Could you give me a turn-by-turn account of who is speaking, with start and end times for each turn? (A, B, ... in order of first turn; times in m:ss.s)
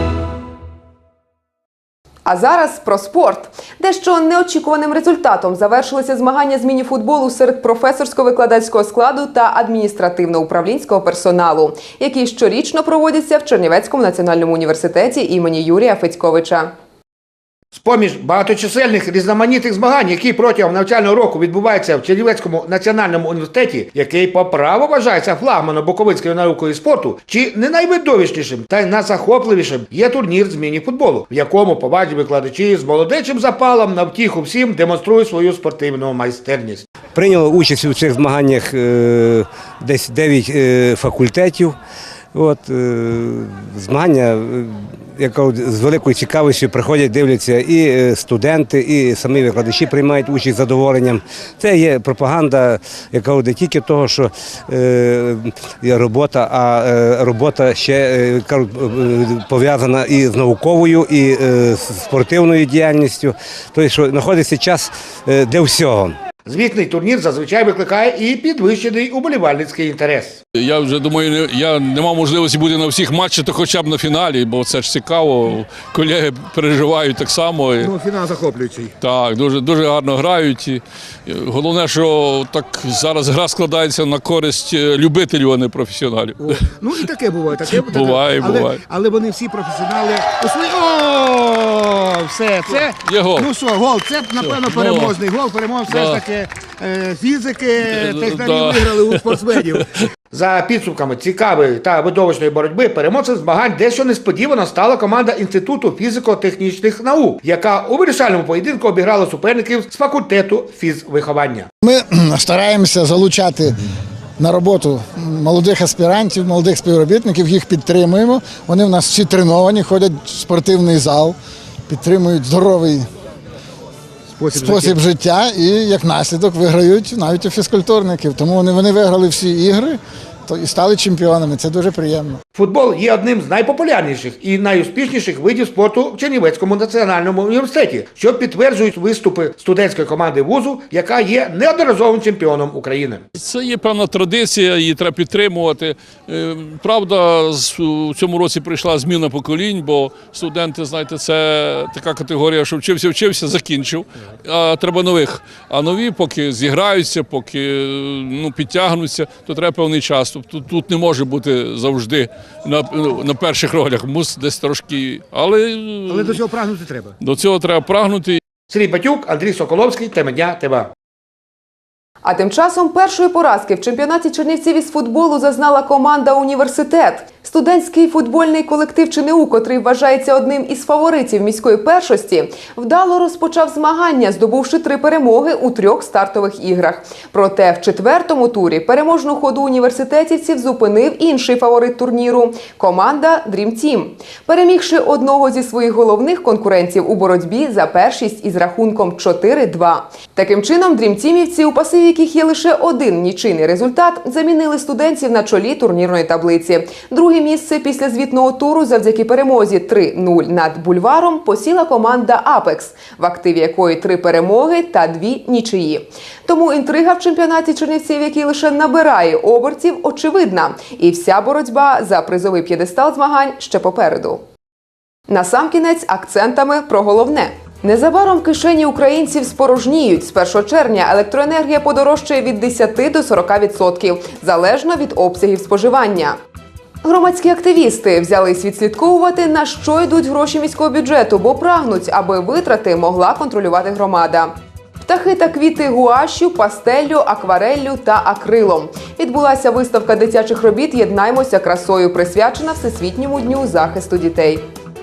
0:02.2-0:16.7 A
0:17.7-0:36.8 B
0:37.1-0:41.8 C
0:42.3-1:06.1 C
1:06.4-1:10.4 B
1:10.5-1:17.9 D
1:17.8-1:18.9 B
1:19.0-1:26.6 D
1:26.4-1:39.8 B
1:27.5-1:28.8 D
1:32.6-1:33.5 D
1:34.4-1:35.2 D
1:35.9-1:36.2 D
1:37.9-1:39.7 D
1:40.3-1:51.7 B
1:51.8-1:53.8 E
1:54.4-2:01.4 E
2:01.9-2:03.1 E
2:04.3-2:05.0 B
2:04.5-2:12.4 E
2:12.5-2:23.2 B
2:23.4-2:46.4 D
2:46.1-2:47.1 B
2:47.2-2:48.4 D
2:48.7-2:50.9 B
2:52.2-3:44.4 A
3:45.3-3:56.4 A
3:57.0-4:04.5 A
4:05.0-4:14.6 A